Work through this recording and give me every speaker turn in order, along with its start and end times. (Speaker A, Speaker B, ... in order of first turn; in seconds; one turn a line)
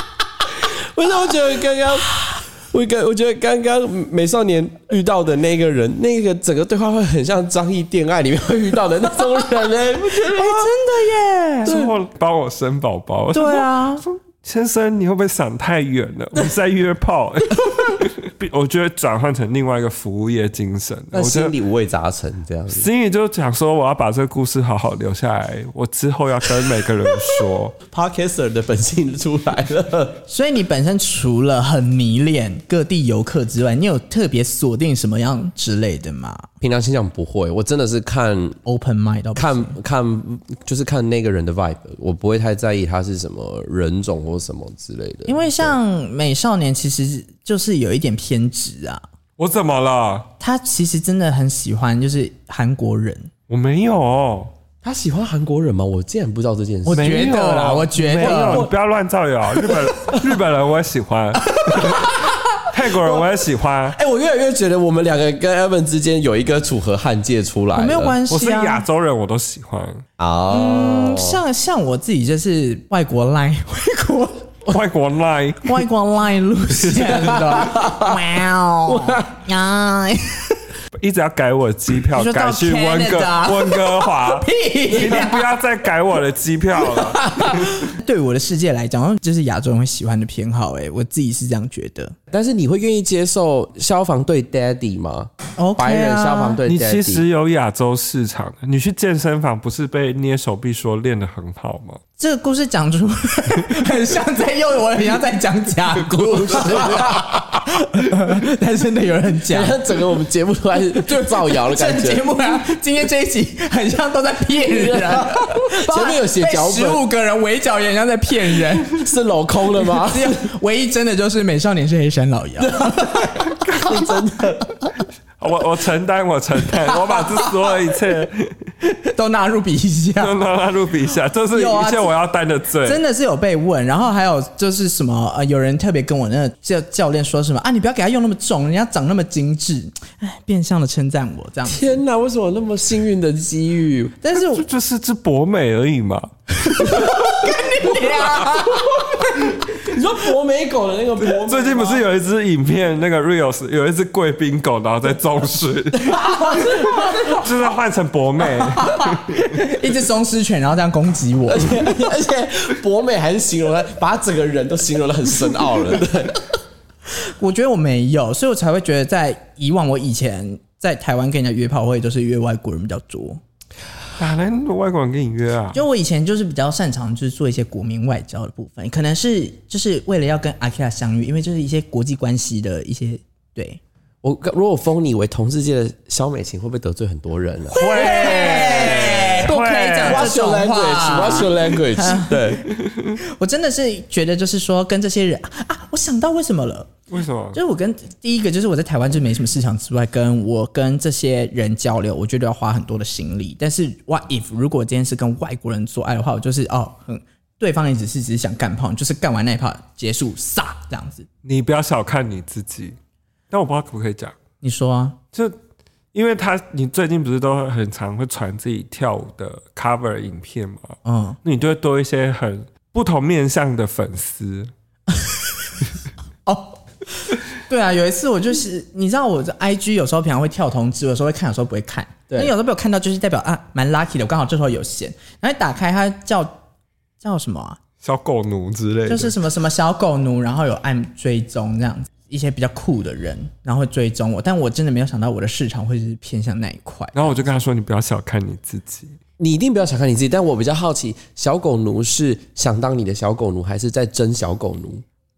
Speaker A: 0.6-10.7
Speaker B: 10.1-11.7
Speaker C: 11.6-21.5
Speaker A: 11.7-11.9
Speaker B: 13.3-14.0
Speaker A: 21.1-22.9
Speaker C: 22.7-27.8
Speaker A: 27.9-30.2
Speaker B: 30.3-36.5
Speaker A: 36.6-38.6
Speaker B: 38.6-39.7
Speaker A: 39.4-45.8
Speaker B: 45.3-49.0
Speaker C: 49.4-50.3
Speaker B: 50.4-53.3
Speaker C: 53.5-54.5
Speaker A: 54.8-57.6
Speaker B: 56.9-58.7
Speaker C: 56.9-62.1
Speaker A: 58.2-58.7
Speaker A: 59.7-60.4
Speaker B: 61.6-62.1
Speaker C: 62.7-64.0
Speaker A: 63.0-63.3
Speaker A: 63.9-68.2
Speaker B: 67.7-68.8
Speaker C: 68.3-70.0
Speaker A: 70.2-71.4
Speaker B: 70.5-74.5
Speaker C: 74.7-75.8
Speaker B: 75.6-80.6
Speaker C: 76.8-77.4
Speaker A: 77.5-78.2
Speaker A: 78.9-79.3
Speaker C: 81.0-87.3
Speaker B: 82.1-85.4
Speaker B: 87.5-92.1
Speaker A: 92.3-97.2
Speaker B: 95.6-96.6
Speaker C: 96.7-102.0
Speaker B: 102.2-109.8
Speaker A: 106.4-107.7
Speaker A: 109.5-112.2
Speaker B: 111.3-119.0
Speaker A: 114.7-117.0
Speaker A: 118.7-120.4
Speaker B: 119.8-123.9
Speaker A: 122.6-124.9
Speaker C: 125.4-128.6
Speaker B: 129.1-130.3
Speaker C: 130.2-133.0
Speaker B: 131.5-132.1
Speaker B: 132.8-142.0
Speaker A: 141.6-144.2
Speaker B: 144.2-144.6
Speaker C: 144.4-147.1
Speaker B: 146.7-149.3
Speaker A: 148.2-152.1
Speaker C: 151.3-159.6
Speaker A: 155.9-157.5
Speaker A: 158.7-159.1
Speaker B: 159.3-162.1
Speaker A: 161.5-166.5
Speaker B: 167.2-173.4
Speaker C: 174.2-175.8
Speaker B: 175.7-183.8
Speaker A: 184.2-192.7
Speaker B: 187.7-192.6
Speaker C: 187.7-190.3
Speaker C: 192.8-193.1
Speaker B: 193.2-196.9
Speaker C: 197.1-197.6
Speaker B: 197.5-211.3
Speaker C: 211.4-212.9
Speaker C: 213.5-214.3
Speaker B: 214.6-215.2
Speaker C: 216.1-224.7
Speaker B: 221.0-221.4
Speaker B: 226.4-236.6
Speaker B: 237.2-237.8
Speaker C: 238.0-239.3
Speaker B: 239.1-247.4
Speaker C: 247.1-249.1
Speaker A: 249.4-255.0